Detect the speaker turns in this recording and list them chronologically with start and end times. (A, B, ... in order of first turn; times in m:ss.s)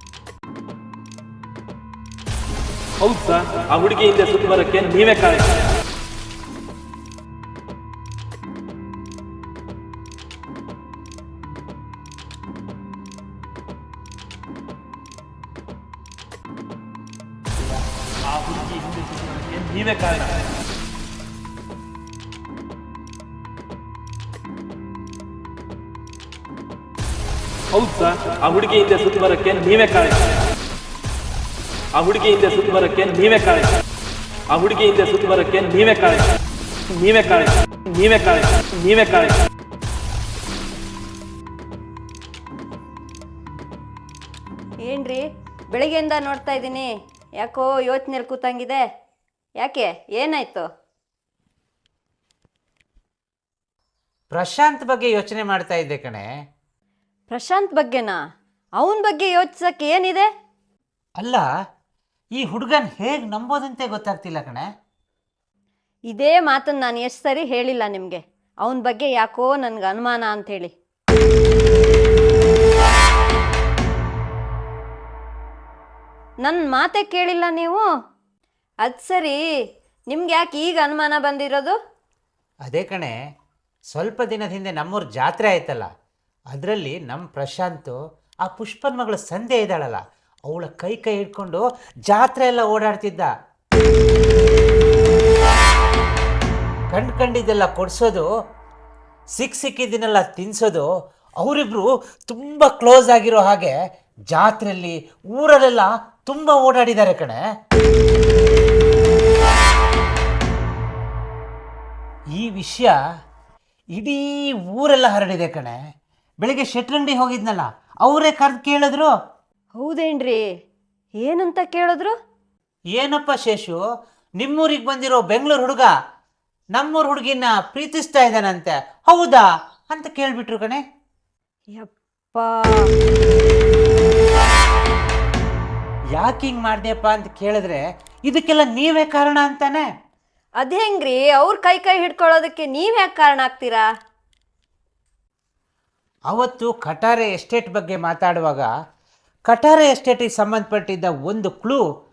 0:03.0-0:05.5 A
0:18.5-0:20.3 A
0:27.8-0:30.3 A
0:31.9-0:33.7 A
0:34.5-0:36.3 A
0:37.0-0:39.3 A
0:44.8-0:46.9 B
0:47.4-0:48.8 B
0:49.6-0:50.7 B
0:54.3-0:56.2 C
0:57.3-0:58.1 B
0:58.8-1:00.3 B
1:01.2-1:01.4 C
1:02.4-1:04.7 C
1:06.1-1:10.7 B
1:16.4-1:17.8 B
1:18.8-1:19.4 B
1:20.1-1:21.8 B
1:22.6-1:23.1 C
1:23.9-1:25.8 C
1:26.5-1:33.3 C
1:36.9-1:38.2 C
1:39.3-1:40.9 C
1:41.4-1:43.8 C
1:44.3-1:47.4 C
1:52.4-1:52.9 C
1:53.9-1:55.8 C
1:56.4-1:59.1 C
1:59.7-2:00.5 B
2:01.2-2:02.1 B
2:02.9-2:03.8 C
2:04.4-2:05.9 C
2:06.8-2:10.8 C
2:11.8-2:12.9 B
2:16.2-2:19.8 C
2:20.6-2:23.8 B
2:26.3-2:28.7 C
2:29.5-2:31.8 C